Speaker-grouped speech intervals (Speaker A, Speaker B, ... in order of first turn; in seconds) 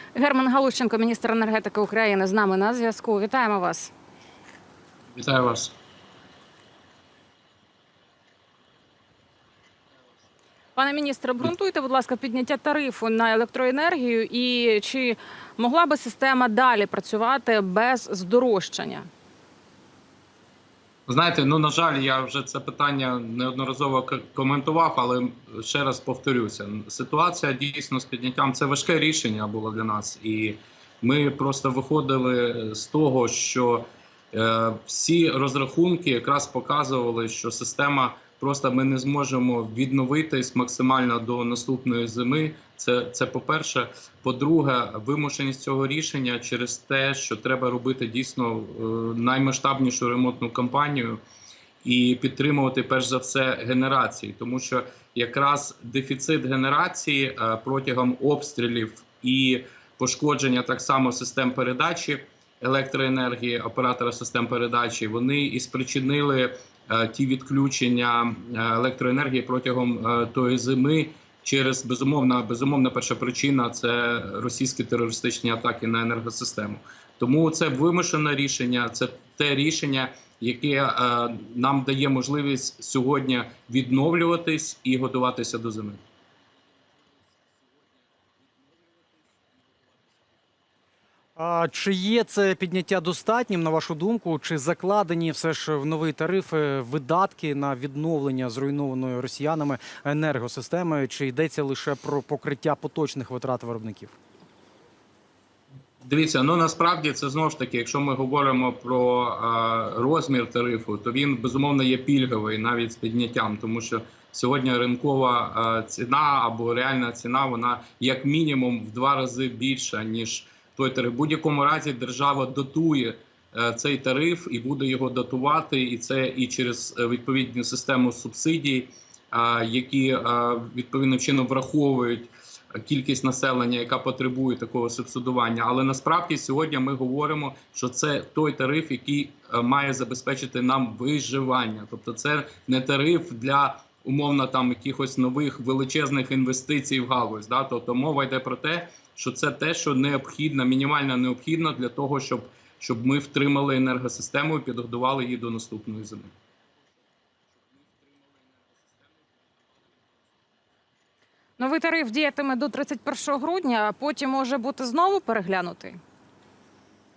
Speaker A: 0.1-3.9, 10.8-19.1, 161.6-166.0
Speaker B: 5.2-5.7, 21.1-51.2, 51.8-86.0, 106.0-156.3, 157.6-160.2
Speaker C: 91.4-104.1